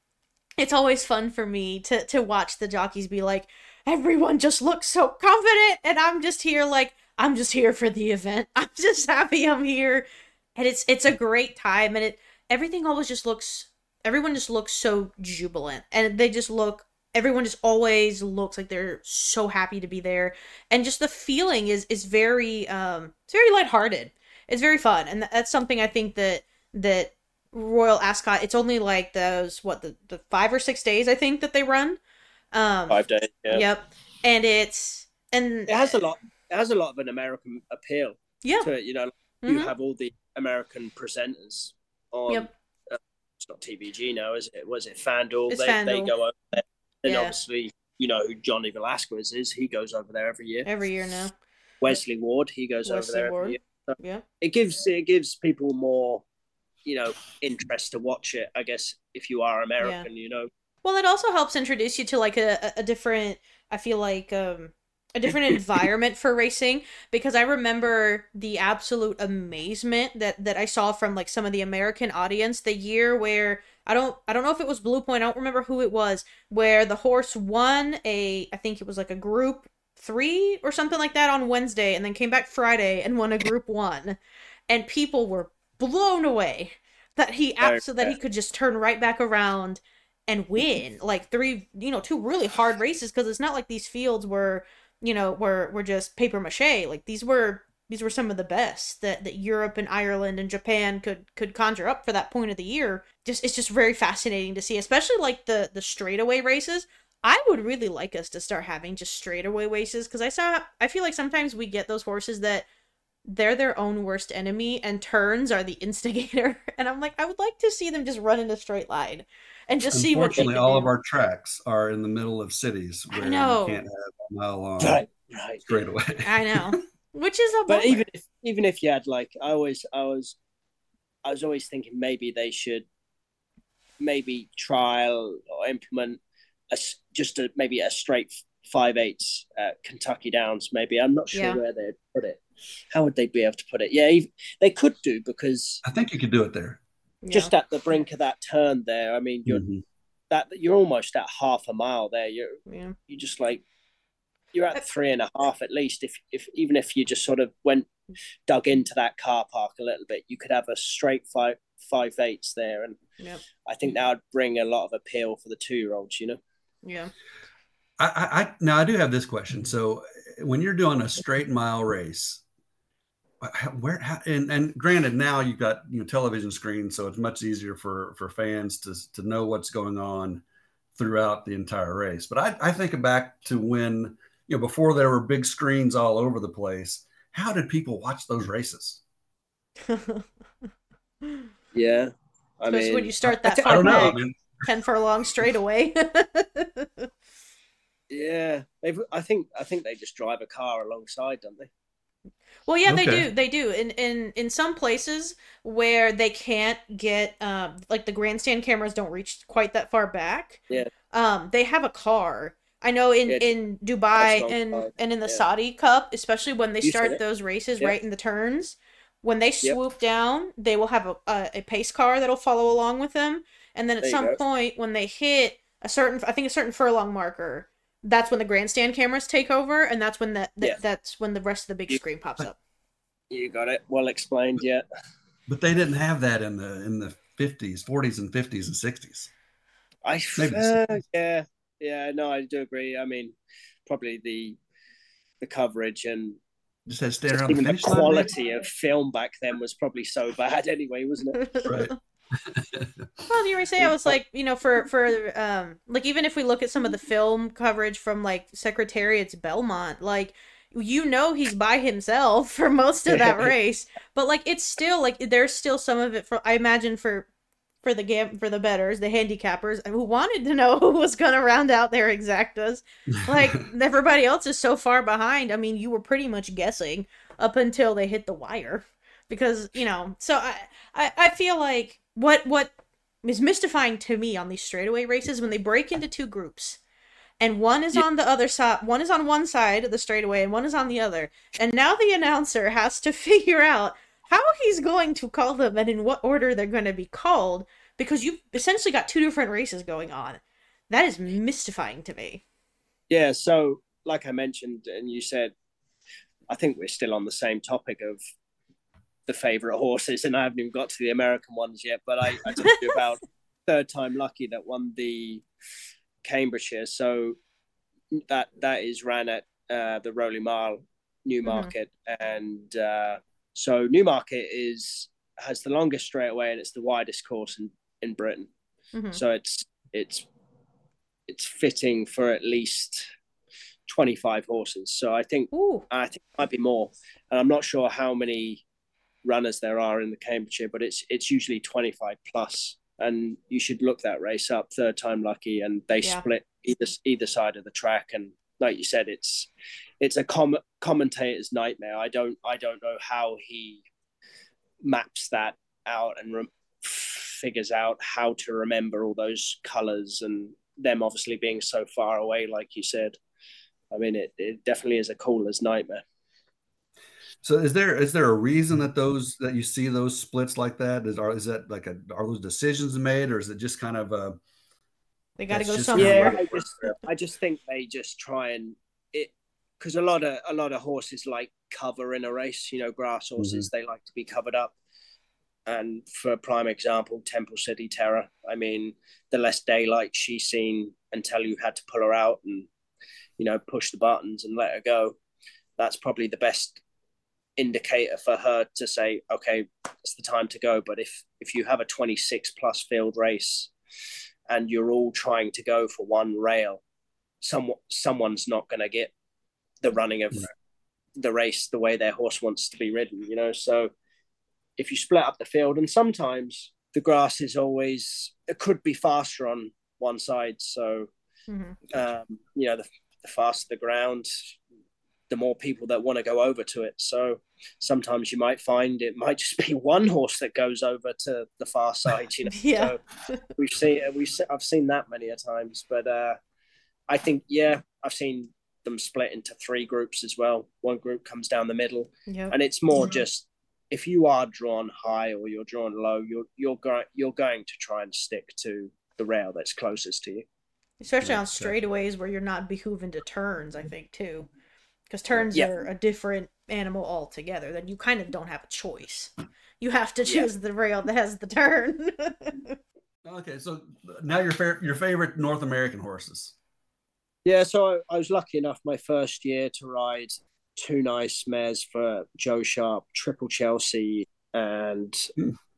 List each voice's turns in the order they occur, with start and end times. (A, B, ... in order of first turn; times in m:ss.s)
0:00.6-0:32.0 A
0:32.5-0:36.0 A
0:32.9-0:33.6 B
0:35.7-0:50.7 B
0:38.4-0:38.7 A
0:39.4-0:39.7 A
0:45.5-0:46.1 A
0:47.0-0:47.4 A
0:50.6-0:51.3 A
0:51.8-0:56.2 B
0:52.8-0:54.2 A
0:56.8-1:00.5 B
0:59.8-1:00.0 A
1:00.8-1:24.2 A
1:24.7-1:52.7 A
1:27.6-1:28.1 B
1:53.3-2:00.9 A
1:59.9-2:05.0 C
2:03.1-2:03.8 A
2:04.8-2:05.8 B
2:05.7-2:06.7 C
2:06.2-2:08.0 A
2:07.7-2:10.4 B
2:11.2-2:12.8 B
2:14.0-2:16.2 B
2:16.7-2:25.8 B
2:21.3-2:21.6 A
2:25.8-2:26.8 C
2:27.2-2:27.5 A
2:27.3-2:29.6 B
2:29.4-2:29.8 C
2:30.3-2:33.6 B
2:32.7-2:33.0 A
2:34.5-2:37.9 B
2:38.5-2:43.0 B
2:43.6-2:46.4 B
2:46.8-2:47.1 A
2:48.0-2:52.4 C
2:53.4-3:00.4 C
3:00.9-3:09.0 C
3:09.9-3:10.2 A
3:11.7-3:14.2 B
3:12.7-3:17.1 A
3:13.2-3:14.6 C
3:18.1-3:21.7 B
3:22.6-3:52.6 A
3:22.8-3:23.3 C
3:34.2-3:35.4 B
3:36.8-3:37.2 B
3:44.0-3:44.4 B
3:53.3-3:54.8 B
3:55.5-3:59.3 C
4:00.0-4:03.3 B
4:00.4-4:01.0 C
4:03.8-4:04.6 B
4:05.4-4:06.4 B
4:06.9-4:08.3 C
4:07.3-4:11.6 B
4:11.4-4:11.9 A
4:11.6-4:13.1 C
4:13.3-4:27.3 A
4:23.1-4:23.5 B
4:27.8-4:42.7 A
4:43.2-4:46.8 A
4:47.4-5:02.4 A
5:03.1-5:05.5 B
5:06.5-5:08.2 B
5:09.3-5:15.4 B
5:16.2-5:17.4 B
5:18.1-5:28.5 B
5:21.4-5:21.7 A
5:28.9-5:29.2 A
5:29.1-5:30.2 B
5:31.3-5:33.0 B
5:33.9-5:38.6 B
5:35.5-5:35.8 A
5:39.2-5:49.5 B
5:50.0-5:53.8 B
5:54.8-6:03.2 B
6:03.9-6:06.0 B
6:07.4-6:14.4 C
6:15.4-6:16.4 A
6:15.5-6:16.9 C
6:16.0-6:24.7 B
6:23.4-6:23.7 C
6:25.7-6:32.7 B
6:33.4-6:35.2 B
6:35.8-6:36.8 B
6:37.6-6:43.7 B
6:44.5-6:46.8 B
6:47.4-6:49.1 B
6:49.8-6:50.5 B
6:51.2-6:53.9 B
6:54.8-7:01.1 B
7:01.5-7:01.8 A
7:01.9-7:04.5 B
7:05.3-7:13.0 B
7:12.5-7:13.4 A
7:13.5-7:16.4 B
7:17.1-7:30.4 B
7:22.3-7:22.5 A
7:31.0-7:34.5 A
7:31.2-7:31.7 C
7:35.1-7:42.8 A
7:43.2-7:46.5 C
7:47.4-7:55.3 B